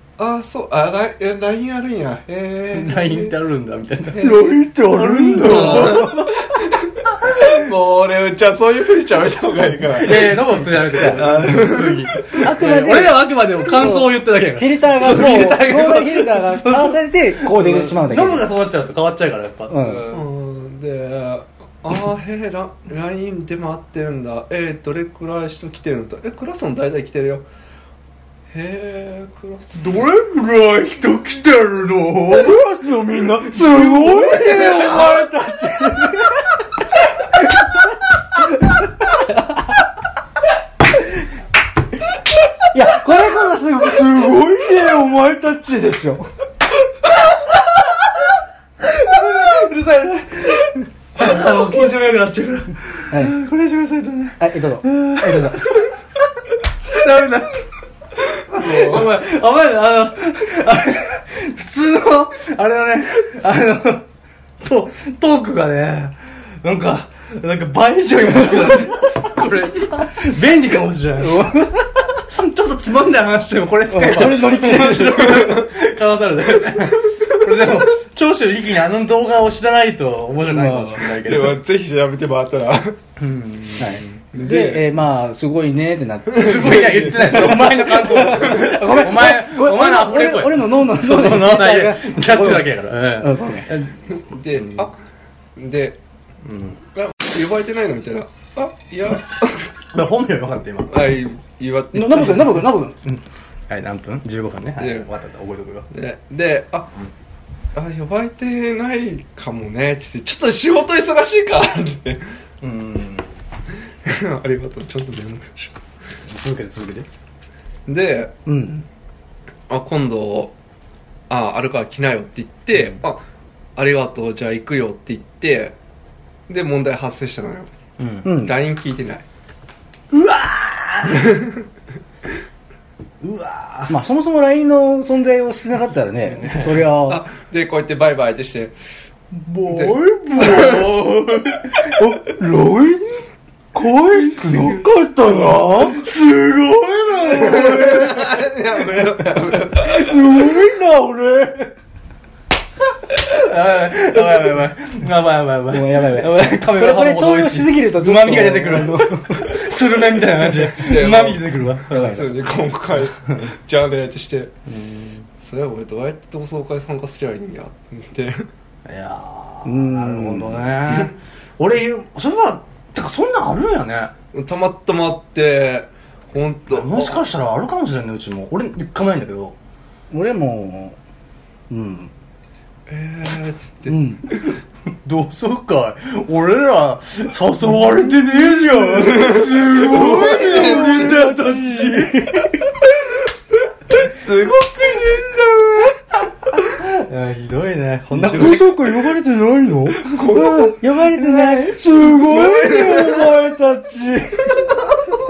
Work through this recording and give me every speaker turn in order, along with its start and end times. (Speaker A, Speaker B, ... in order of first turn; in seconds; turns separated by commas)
Speaker A: 0.2-3.4, Speaker B: 2.7-4.3, Speaker A: 4.1-4.7, Speaker C: 4.2-6.3, Speaker B: 4.8-6.4, Speaker A: 5.4-12.4, Speaker B: 10.0-20.2, Speaker C: 10.9-11.2, Speaker C: 12.4-18.5, Speaker C: 19.7-20.1, Speaker A: 20.0-27.5, Speaker A: 28.5-30.1, Speaker B: 29.8-32.5, Speaker C: 30.0-36.6, Speaker B: 33.3-35.2, Speaker A: 34.0-35.2, Speaker C: 37.3-39.7, Speaker C: 42.7-46.3, Speaker B: 48.9-55.9, Speaker C: 54.4-55.7, Speaker B: 56.9-57.6, Speaker B: 58.4-64.0, Speaker A: 58.5-59.1, Speaker B: 64.6-81.6, Speaker C: 73.9-75.5, Speaker A: 75.3-75.6, Speaker C: 80.5-81.0, Speaker A: 81.1-83.0, Speaker B: 83.2-84.2, Speaker C: 83.8-93.7, Speaker A: 84.3-84.9, Speaker A: 86.3-88.6, Speaker B: 86.3-94.0, Speaker A: 94.1-94.9, Speaker A: 95.6-96.0, Speaker B: 96.5-96.8, Speaker A: 97.0-99.7, Speaker B: 99.9-101.1, Speaker A: 100.9-102.7, Speaker C: 101.9-103.0, Speaker B: 102.6-105.9, Speaker A: 104.8-105.1, Speaker A: 105.9-106.9, Speaker A: 107.8-112.2, Speaker B: 112.6-113.3, Speaker A: 114.0-115.8, Speaker B: 116.3-117.1, Speaker A: 117.9-118.3, Speaker C: 118.5-118.8, Speaker A: 119.7-120.5, Speaker A: 121.3-123.2, Speaker A: 123.8-125.8, Speaker A: 126.5-127.7, Speaker B: 128.0-128.3, Speaker C: 128.2-128.6, Speaker A: 128.2-129.2, Speaker B: 130.1-131.4, Speaker A: 131.1-131.6, Speaker B: 133.2-134.0, Speaker C: 133.9-137.2, Speaker B: 136.2-136.9, Speaker A: 137.0-138.8, Speaker C: 139.5-148.3, Speaker B: 139.6-141.7, Speaker A: 139.7-141.0, Speaker B: 144.0-144.7, Speaker A: 144.4-144.8, Speaker B: 146.0-148.2, Speaker A: 147.3-150.2, Speaker C: 149.8-151.7, Speaker B: 153.1-162.2, Speaker C: 155.7-159.6, Speaker A: 160.7-164.5, Speaker C: 161.9-162.3, Speaker C: 164.7-165.2, Speaker A: 165.4-168.5, Speaker B: 168.9-174.1, Speaker C: 169.7-170.7, Speaker A: 174.3-177.3, Speaker B: 176.7-179.6, Speaker C: 180.1-181.0, Speaker C: 181.7-182.1, Speaker A: 182.9-184.0, Speaker C: 183.9-184.2, Speaker B: 185.1-192.4, Speaker A: 189.0-191.3, Speaker C: 189.6-192.8, Speaker A: 193.9-196.0, Speaker B: 196.5-198.8, Speaker C: 198.1-204.8, Speaker A: 198.3-198.8, Speaker A: 199.9-200.8, Speaker B: 201.1-202.3, Speaker A: 201.8-203.3